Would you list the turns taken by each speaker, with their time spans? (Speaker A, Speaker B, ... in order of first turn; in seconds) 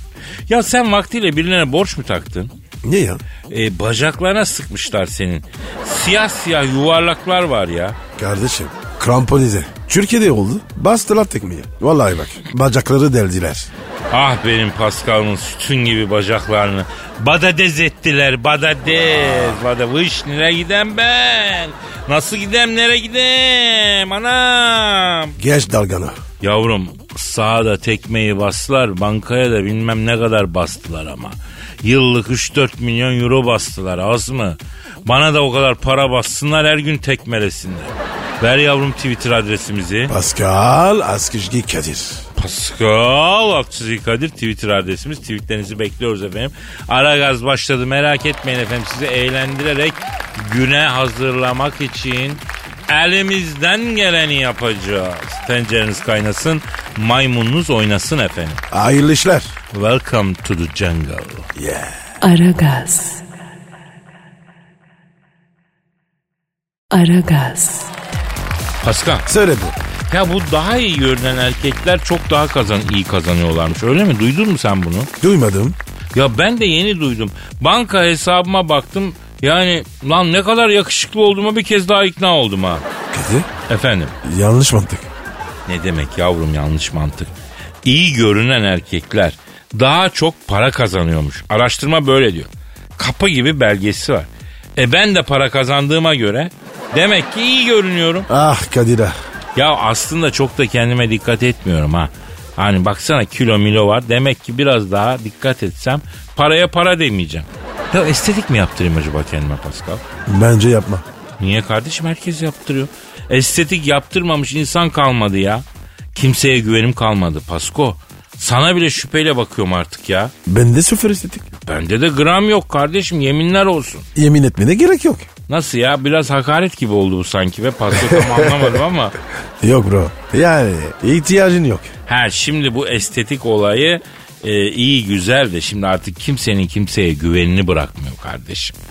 Speaker A: 0.5-2.5, 3.5-8.0, 14.1-25.4, 26.4-40.1, 42.4-58.6, 59.7-61.5, 68.8-69.2, 70.1-75.1, 76.1-82.8, 83.7-84.1, 85.7-87.3, 87.8-98.3, 99.5-110.0, 111.4-120.3, 121.6-124.0, 125.5-129.1, 132.1-138.8
Speaker B: 2.8-3.2, 8.2-13.7, 25.4-26.2, 40.1-42.2, 58.7-59.5, 61.5-62.0, 69.2-69.8, 75.2-75.8, 83.1-83.5, 84.2-85.1, 98.3-99.2, 110.2-111.0, 120.5-121.5, 124.1-125.3, 127.9-128.8, 129.6-131.9
Speaker C: 62.2-63.2, 66.9-67.9